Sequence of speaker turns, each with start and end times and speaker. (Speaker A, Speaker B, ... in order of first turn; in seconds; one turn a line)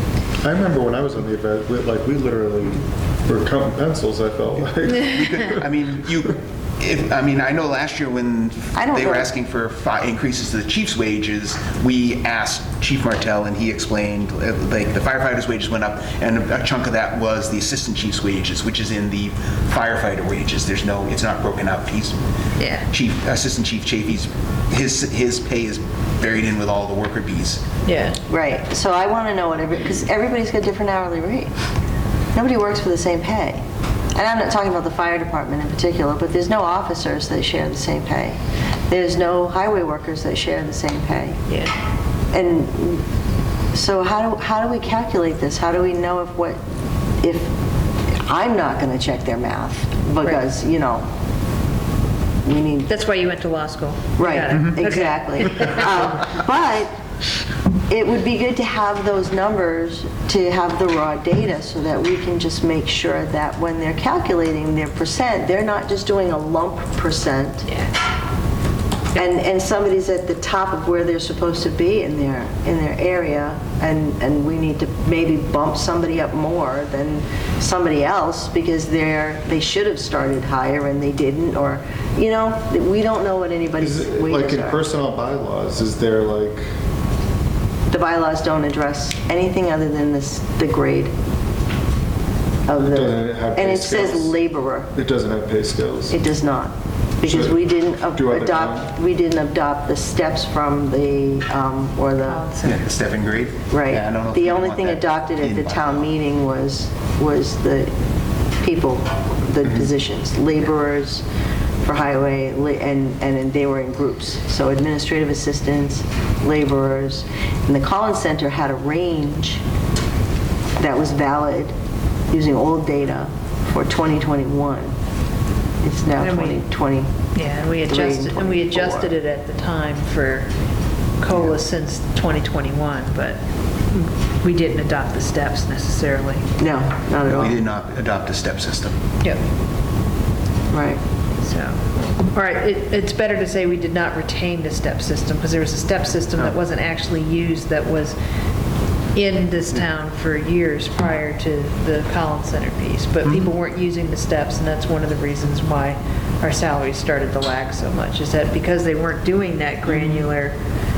Speaker A: 0.4-5.6
Speaker B: 4.9-22.2
Speaker C: 8.8-9.3
Speaker D: 22.6-22.8
Speaker B: 22.9-27.6
Speaker D: 27.9-28.2
Speaker C: 28.3-31.5
Speaker C: 32.3-33.6
Speaker C: 34.1-38.4
Speaker C: 38.9-41.4
Speaker C: 42.3-43.0
Speaker C: 43.7-46.6
Speaker C: 47.2-47.5
Speaker C: 48.1-51.1
Speaker C: 52.4-52.9
Speaker D: 52.9-56.0
Speaker C: 54.2-56.9
Speaker C: 57.9-67.7
Speaker C: 69.1-84.8
Speaker A: 83.8-86.7
Speaker C: 87.9-91.1
Speaker C: 92.7-94.9
Speaker A: 92.8-94.3
Speaker A: 94.9-96.2
Speaker C: 96.1-102.5
Speaker A: 97.2-97.6
Speaker A: 98.1-98.9
Speaker D: 102.2-102.8
Speaker B: 102.6-106.1
Speaker C: 103.7-107.9
Speaker C: 108.6-111.2
Speaker C: 111.8-119.6
Speaker C: 120.8-121.7
Speaker C: 122.3-124.9
Speaker C: 125.8-127.1
Speaker D: 126.2-126.6
Speaker D: 127.3-130.5
Speaker C: 127.8-129.1
Speaker D: 131.2-136.4
Speaker C: 136.6-137.6
Speaker B: 137.3-139.0
Speaker C: 140.7-141.0
Speaker D: 141.4-141.8
Speaker D: 142.3-148.2
Speaker D: 149.1-160.6
Speaker B: 159.9-160.2